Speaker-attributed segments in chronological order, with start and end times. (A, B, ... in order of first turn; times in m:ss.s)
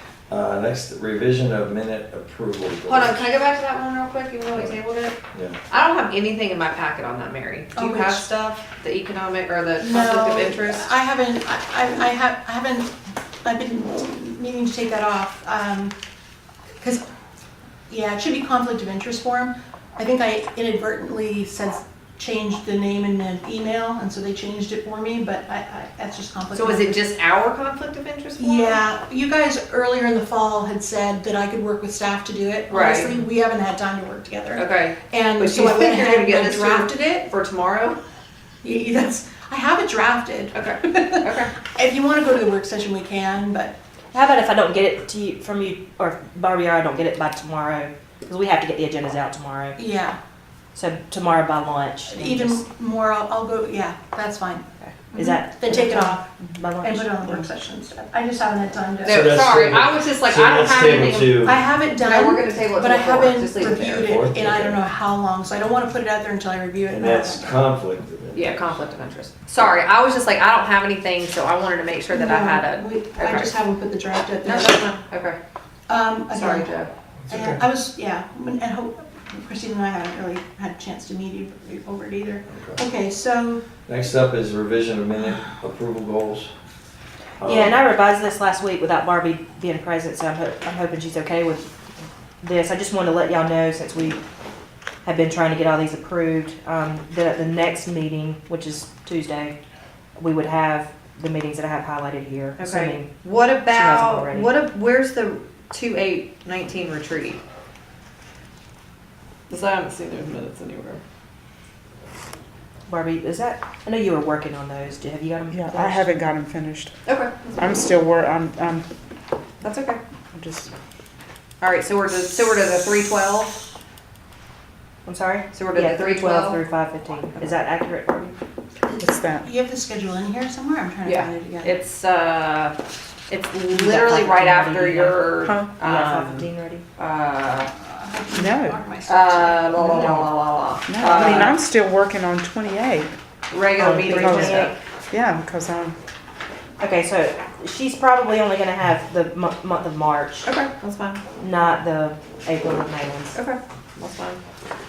0:00.3-0:03.2 A
0:02.9-0:05.2 B
0:05.3-0:05.6 A
0:05.7-0:10.9 B
0:07.7-0:08.3 C
0:09.8-0:12.9 C
0:13.4-0:16.0 C
0:17.9-0:27.1 C
0:26.5-0:28.8 B
0:28.4-0:37.3 C
0:32.7-0:33.2 B
0:34.6-0:38.0 B
0:38.6-0:43.8 C
0:40.5-0:41.5 B
0:44.1-0:49.8 D
0:49.8-0:50.2 C
0:50.8-0:52.6 D
0:52.1-0:59.4 C
0:54.8-0:57.5 D
0:59.0-1:04.1 B
0:59.0-1:01.6 A
1:01.4-1:07.6 C
1:03.8-1:04.8 A
1:06.9-1:08.7 A
1:08.3-1:13.6 B
1:12.1-1:14.9 C
1:14.4-1:15.4 B
1:15.9-1:16.7 C
1:16.3-1:16.9 B
1:17.3-1:17.6 A
1:17.3-1:23.6 C
1:22.5-1:22.8 A
1:23.9-1:26.5 A
1:27.4-1:27.8 A
1:27.4-1:31.7 D
1:32.4-1:34.2 D
1:35.0-1:39.6 D
1:40.2-1:43.1 D
1:42.6-1:47.4 B
1:43.7-1:44.6 D
1:49.5-1:51.0 B
1:52.9-1:56.1 D
1:55.5-1:56.9 E
1:57.1-1:57.6 B
1:57.6-1:58.9 E
1:59.6-2:00.0 B
2:00.3-2:00.7 E
2:01.6-2:03.6 B
2:05.0-2:08.4 D
2:05.5-2:06.6 B
2:09.0-2:09.4 E
2:09.4-2:11.8 C
2:11.0-2:12.8 B
2:13.3-2:17.7 B
2:13.7-2:16.8 D
2:17.8-2:19.8 C
2:18.3-2:18.8 E
2:19.1-2:21.6 B
2:19.9-2:20.2 D
2:20.9-2:23.1 E
2:21.2-2:21.5 D
2:23.5-2:24.8 B
2:23.8-2:24.7 D
2:24.0-2:26.0 E
2:26.8-2:30.5 D
2:30.5-2:31.2 B
2:31.4-2:33.4 D
2:33.4-2:34.4 B